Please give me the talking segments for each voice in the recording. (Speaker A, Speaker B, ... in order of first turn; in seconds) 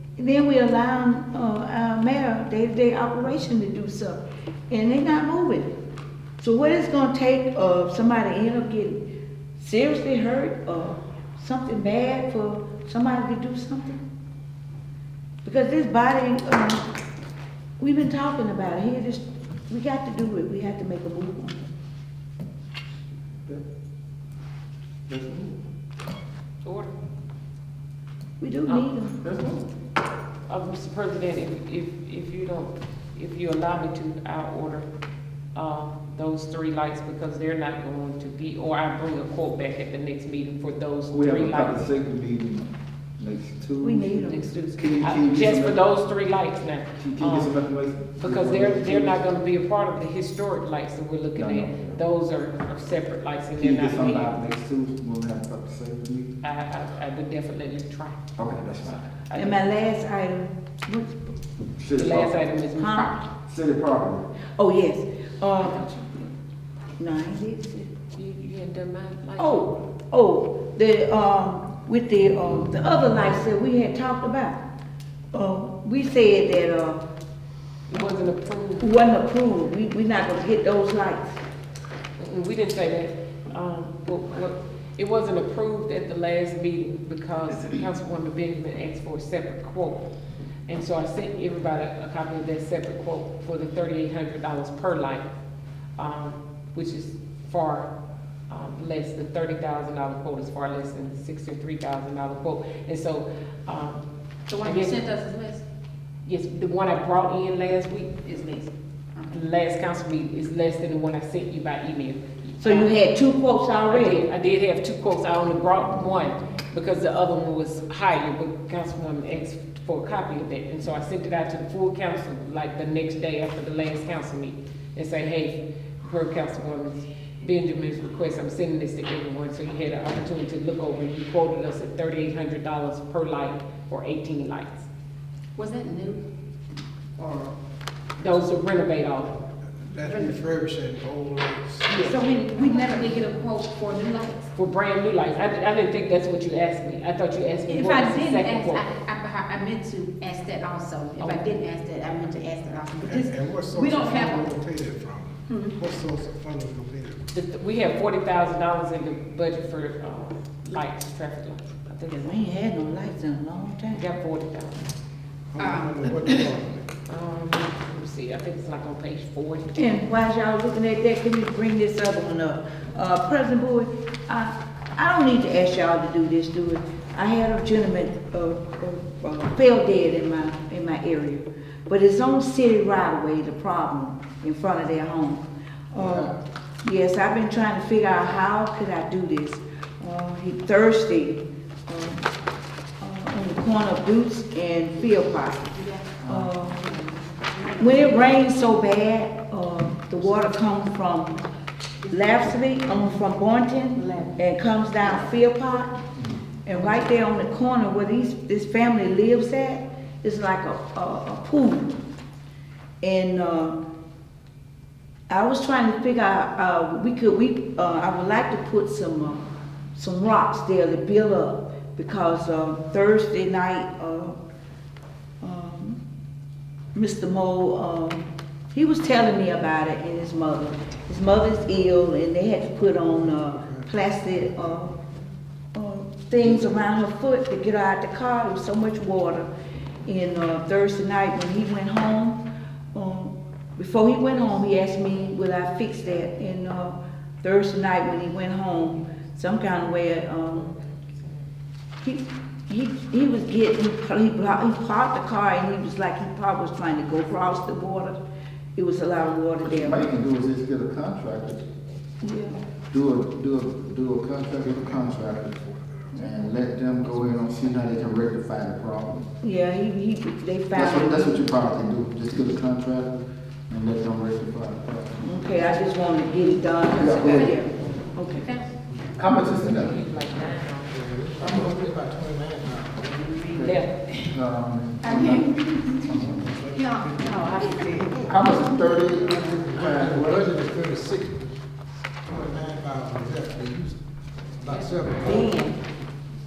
Speaker A: 0.2-5.7, 6.4-9.0, 9.6-14.0, 15.4-16.8, 17.8-21.6, 28.4-29.2, 43.8-44.9, 59.3-61.2, 62.7-63.2, 64.5-65.9, 67.0-67.9, 69.4-74.6, 75.3-77.0, 78.8-81.4, 112.6-114.2, 162.1-164.0, 169.8-192.2, 193.0-195.7, 196.2-196.9, 197.8-201.4, 202.1-206.0, 206.6-212.0, 213.0-213.8, 215.3-219.4, 219.9-224.4, 225.4-226.0, 226.9-234.9, 235.7-239.5, 240.1-242.4, 242.9-250.7, 252.0-258.2, 258.8-260.0, 262.2-262.6, 269.4-271.4, 275.2-278.5, 295.2-295.7
Speaker B: 25.1-25.6, 29.2-29.6, 41.1-45.8, 47.0-49.2, 51.4-52.0, 53.6-56.3, 58.4-59.1, 61.8-62.4, 63.5-64.3, 186.0-186.3, 196.2-196.5, 259.6-261.6, 262.9-265.6, 266.1-269.3, 270.7-275.2, 276.9-277.6, 279.1-280.0, 281.4-281.7, 283.4-286.5, 288.2-290.5
Speaker C: 26.6-26.9, 30.5-34.9, 35.5-41.9, 44.2-47.6, 48.2-54.3, 56.4-58.3, 59.3-59.6, 62.0-63.2, 65.6-66.2, 68.1-69.7, 77.9-78.9, 82.2-90.0, 90.7-95.2, 96.0-97.9, 98.5-104.0, 104.6-105.0, 106.2-108.1, 109.3-113.0, 113.9-134.9, 138.2-139.4, 141.9-142.2, 144.5-148.9, 151.2-151.6, 157.3-162.3, 163.9-164.9, 167.1-169.9, 250.5-251.5, 279.3-281.0, 283.5-284.3, 294.6-295.6
Speaker D: 104.5-105.6, 108.2-109.4, 135.6-136.2, 137.2-137.5, 140.0-140.4, 142.0-144.5, 147.7-154.5, 155.5-155.8, 165.6-166.5, 195.7-196.2, 196.8-198.4, 202.0-203.1, 203.9-204.4, 205.0-205.3, 277.0-277.6, 278.3-278.8, 283.2-283.5, 285.0-286.2, 286.7-288.7, 295.2-295.7
Speaker E: 139.7-142.1, 152.9-157.2, 165.5-166.9, 233.1-235.0, 264.5-266.7, 280.9-283.2, 286.1-291.6, 292.2-294.0, 294.6-295.7